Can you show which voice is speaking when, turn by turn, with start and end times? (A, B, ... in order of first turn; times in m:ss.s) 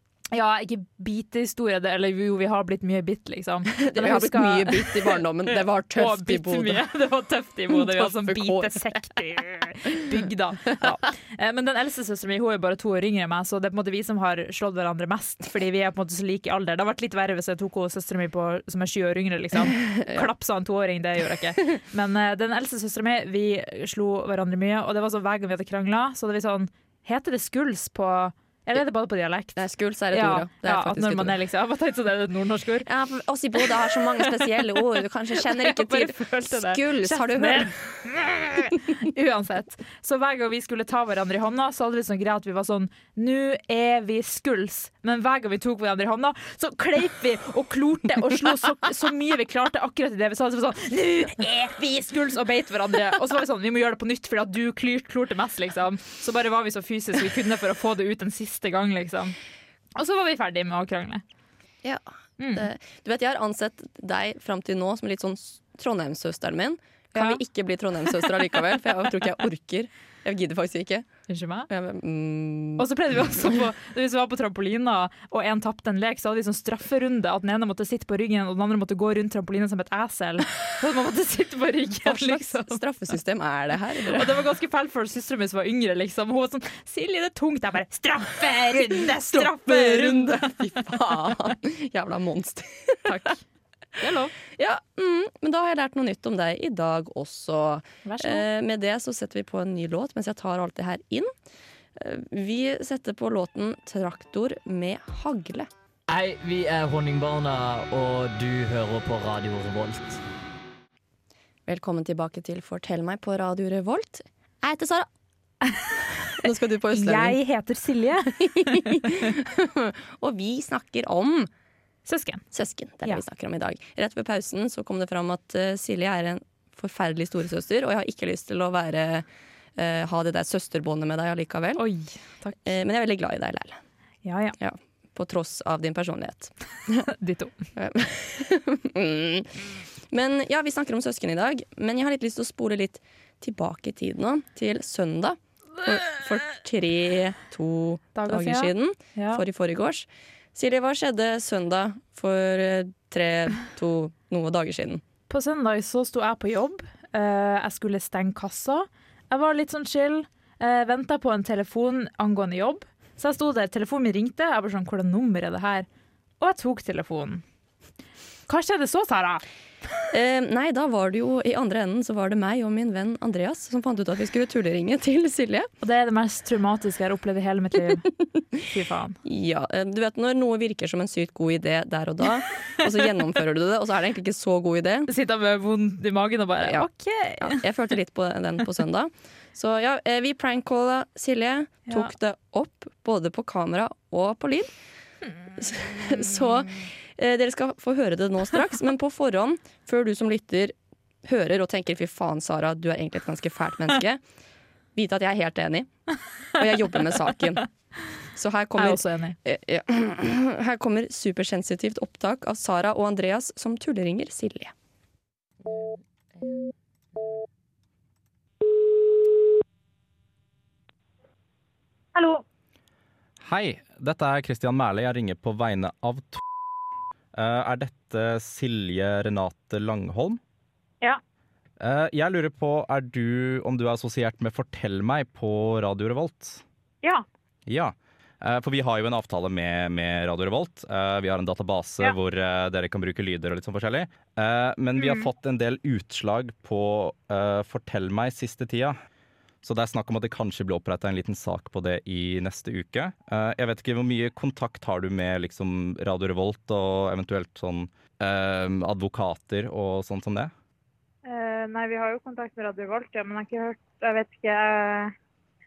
0:00.3-0:32.9 A
0:03.8-0:06.8 B
0:07.7-0:09.0 B
0:19.7-0:20.3 B
0:29.6-0:31.4 B
0:32.8-0:37.8 B
0:34.5-0:59.4 A
1:00.0-1:01.2 A
1:01.8-1:11.1 B
1:02.4-1:02.7 A
1:07.2-1:07.4 A
1:11.3-1:11.7 A
1:11.7-1:13.6 B
1:12.8-1:22.8 A
1:22.0-1:24.3 B
1:24.1-1:30.8 A
1:29.0-1:33.3 B
1:33.0-1:33.4 A
1:34.0-1:34.4 A
1:34.4-1:41.3 B
1:38.0-1:38.5 A
1:42.0-1:45.7 B
1:46.1-1:50.2 C
1:51.7-1:55.1 B
1:55.7-1:56.0 A
1:56.4-1:57.4 B
1:56.9-1:59.2 A
1:58.3-2:01.5 B
2:02.1-2:02.4 A
2:02.5-2:11.8 B
2:11.8-2:12.6 A
2:12.6-2:13.8 B
2:14.2-2:14.6 A
2:14.6-2:17.1 B
2:17.1-2:17.6 A
2:17.8-2:35.0 B
2:28.2-2:29.4 A
2:35.3-2:45.9 A
2:46.4-2:47.4 A
2:48.5-2:49.4 A
2:50.1-2:55.7 B
2:55.8-2:58.1 A
2:58.6-2:59.2 A
2:59.2-3:05.1 B
3:05.1-3:07.6 A
3:06.6-3:06.9 B
3:07.4-3:14.7 B
3:15.6-3:24.2 B
3:25.0-3:25.9 B
3:26.6-3:27.6 B
3:28.4-3:34.7 B
3:28.8-3:29.4 A
3:42.2-3:42.4 D
3:43.4-3:46.4 E
3:47.3-3:50.4 E
3:51.8-3:56.6 E
3:57.7-4:09.0 E
4:05.0-4:05.3 D
4:09.6-4:20.5 E
4:21.2-4:25.1 D